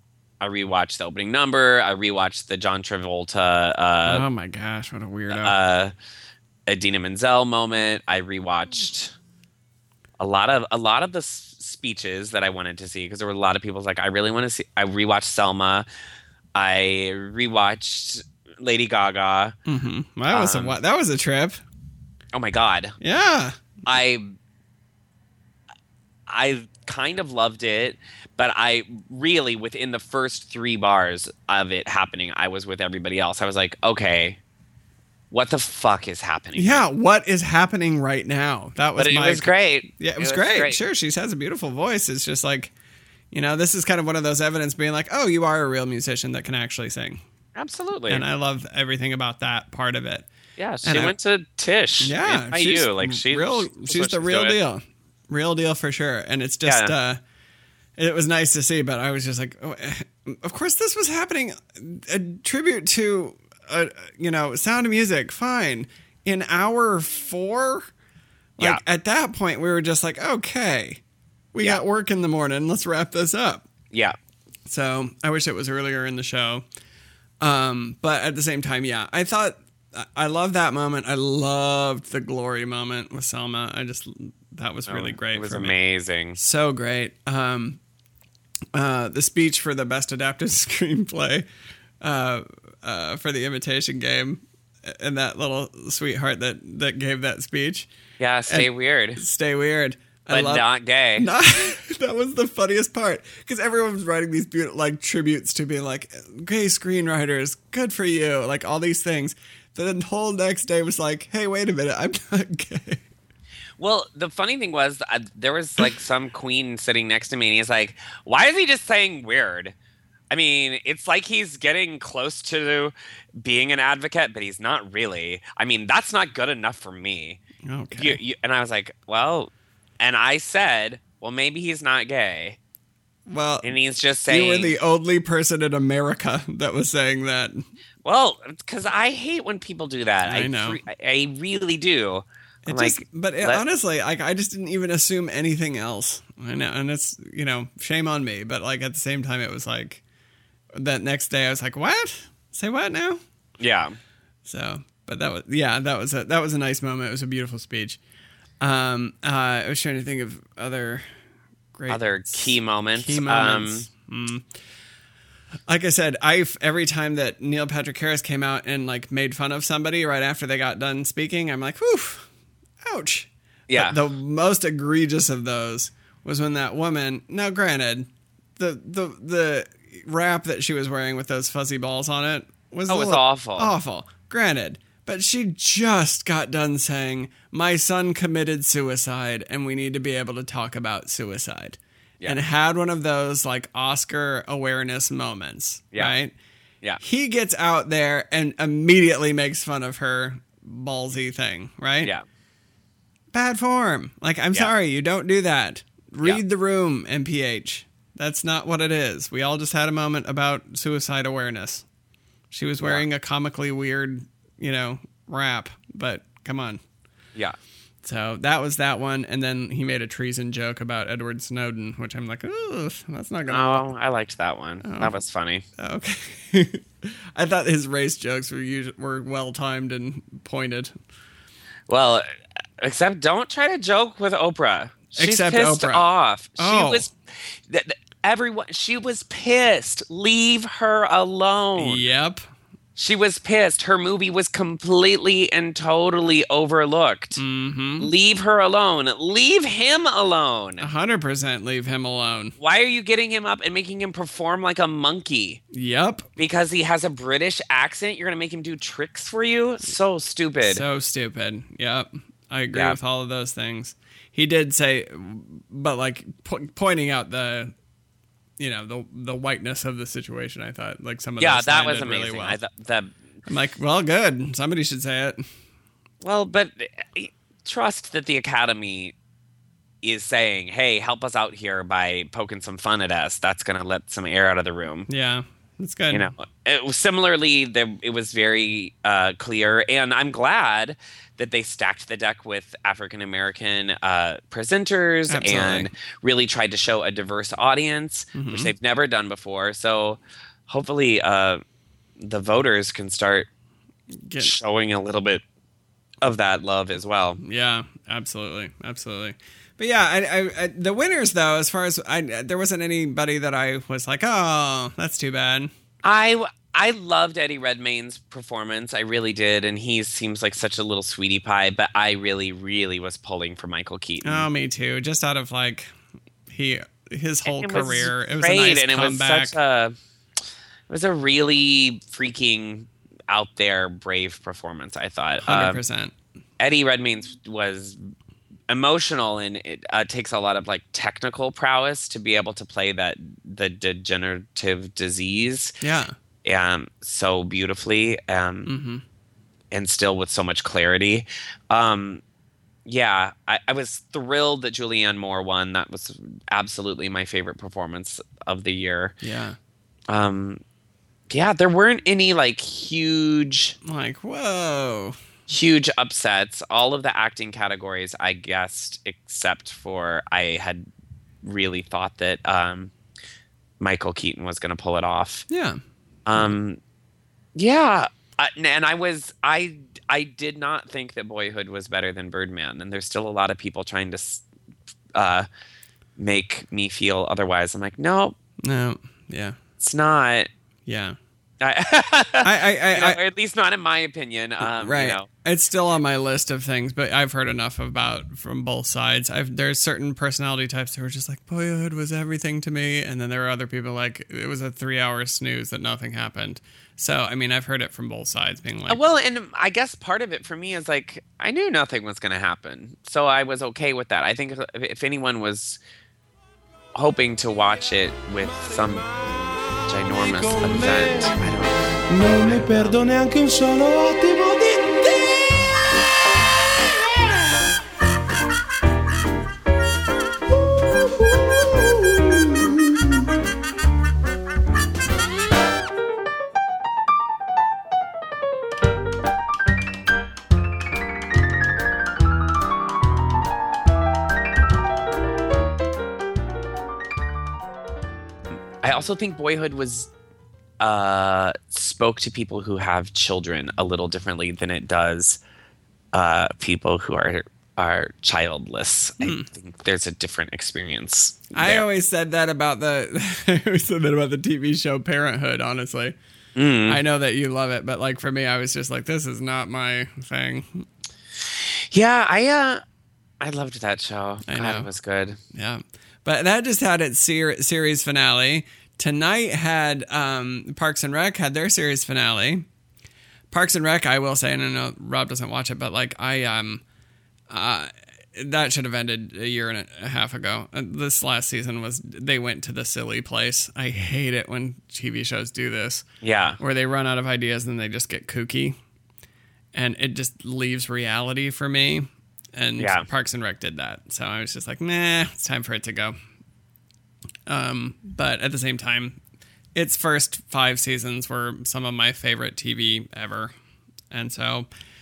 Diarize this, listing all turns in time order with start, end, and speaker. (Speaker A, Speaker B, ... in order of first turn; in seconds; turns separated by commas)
Speaker A: 0.4-4.2, Speaker B: 4.1-5.6, Speaker A: 5.3-5.9, Speaker A: 6.7-9.1, Speaker A: 10.2-15.9, Speaker A: 16.6-19.6, Speaker B: 19.6-21.6, Speaker A: 20.3-20.8, Speaker A: 22.3-23.0, Speaker B: 23.0-23.6, Speaker A: 23.9-24.4, Speaker A: 26.3-34.4, Speaker A: 35.3-36.8, Speaker B: 36.5-42.7, Speaker A: 39.0-40.8, Speaker B: 43.3-47.2, Speaker A: 47.5-48.2, Speaker B: 48.1-50.3, Speaker A: 50.6-54.6, Speaker B: 50.8-51.1, Speaker B: 52.0-57.2, Speaker A: 56.6-57.0, Speaker B: 58.0-67.9, Speaker B: 68.6-71.0, Speaker B: 71.5-73.7, Speaker B: 74.7-76.6, Speaker B: 77.4-85.8, Speaker A: 84.9-86.4, Speaker B: 86.4-87.8, Speaker B: 88.7-91.5, Speaker B: 92.0-97.9, Speaker A: 98.2-99.2, Speaker B: 98.5-113.0, Speaker A: 100.3-101.3, Speaker A: 113.8-119.8, Speaker A: 120.3-127.4, Speaker B: 127.6-128.2, Speaker A: 128.0-132.6, Speaker B: 133.3-133.7, Speaker A: 133.6-134.8, Speaker B: 134.3-137.6, Speaker A: 138.0-143.6, Speaker B: 140.2-140.8, Speaker B: 142.7-150.0, Speaker B: 150.8-153.2, Speaker A: 153.6-154.0, Speaker B: 154.4-158.0, Speaker B: 158.6-161.1, Speaker B: 161.7-164.4, Speaker A: 161.9-163.9, Speaker B: 165.7-172.3, Speaker B: 172.8-196.3, Speaker A: 173.7-174.0, Speaker A: 182.9-183.7, Speaker B: 197.0-202.1, Speaker B: 203.3-211.9, Speaker B: 212.5-216.8, Speaker B: 218.0-223.9, Speaker A: 223.5-225.6, Speaker B: 224.8-225.2, Speaker B: 225.8-230.9, Speaker A: 231.9-232.3, Speaker A: 232.8-242.0, Speaker B: 235.1-236.1, Speaker B: 236.6-237.1, Speaker B: 241.8-242.4, Speaker A: 243.0-247.4, Speaker B: 247.4-248.1, Speaker A: 248.0-250.8, Speaker B: 250.8-252.6, Speaker A: 252.6-255.6, Speaker B: 255.7-256.3, Speaker A: 256.4-260.8, Speaker B: 260.6-267.7, Speaker B: 268.6-272.6, Speaker A: 271.4-273.1, Speaker B: 273.5-275.4, Speaker A: 276.2-279.1, Speaker A: 280.0-285.1, Speaker B: 285.1-286.3, Speaker A: 286.1-301.6, Speaker B: 295.3-295.9, Speaker B: 298.4-298.7, Speaker A: 302.2-303.5, Speaker B: 304.2-304.6, Speaker A: 304.4-305.4, Speaker A: 306.2-307.4, Speaker B: 307.4-315.7, Speaker A: 316.0-324.5, Speaker B: 324.2-325.9, Speaker B: 326.5-329.5, Speaker A: 327.4-329.9, Speaker A: 330.9-335.8, Speaker B: 335.4-336.1, Speaker A: 336.6-338.0, Speaker A: 338.7-345.8, Speaker B: 345.8-346.1, Speaker A: 346.4-348.7, Speaker B: 348.6-349.0, Speaker A: 349.7-352.2, Speaker A: 352.9-359.1, Speaker B: 359.2-359.6, Speaker A: 360.1-360.6, Speaker A: 361.3-363.8, Speaker B: 363.9-365.2, Speaker A: 365.5-370.9, Speaker A: 371.4-372.9, Speaker A: 373.8-375.5, Speaker B: 375.5-375.8, Speaker A: 376.2-376.8, Speaker A: 377.6-384.4, Speaker A: 385.1-385.5, Speaker A: 386.2-388.4, Speaker B: 388.6-389.6, Speaker A: 389.8-390.5, Speaker B: 390.9-391.1, Speaker A: 391.6-395.3, Speaker B: 392.4-393.2, Speaker B: 394.6-409.0, Speaker A: 408.9-415.8, Speaker A: 416.9-419.1, Speaker A: 419.9-421.8, Speaker C: 420.2-421.6, Speaker C: 422.1-425.3, Speaker A: 422.4-423.0, Speaker A: 448.8-450.1, Speaker A: 450.8-455.4, Speaker A: 456.1-461.8, Speaker B: 459.2-459.5, Speaker B: 461.5-466.1, Speaker A: 466.6-467.0, Speaker B: 466.9-470.9, Speaker A: 471.5-472.8, Speaker A: 473.4-475.4, Speaker B: 474.5-474.9, Speaker B: 475.5-482.7, Speaker B: 483.5-486.8, Speaker B: 487.5-496.1, Speaker A: 496.2-496.6, Speaker B: 496.6-498.8, Speaker B: 499.7-506.1, Speaker A: 502.8-503.1, Speaker B: 507.5-509.2, Speaker B: 509.8-513.5, Speaker B: 514.1-514.7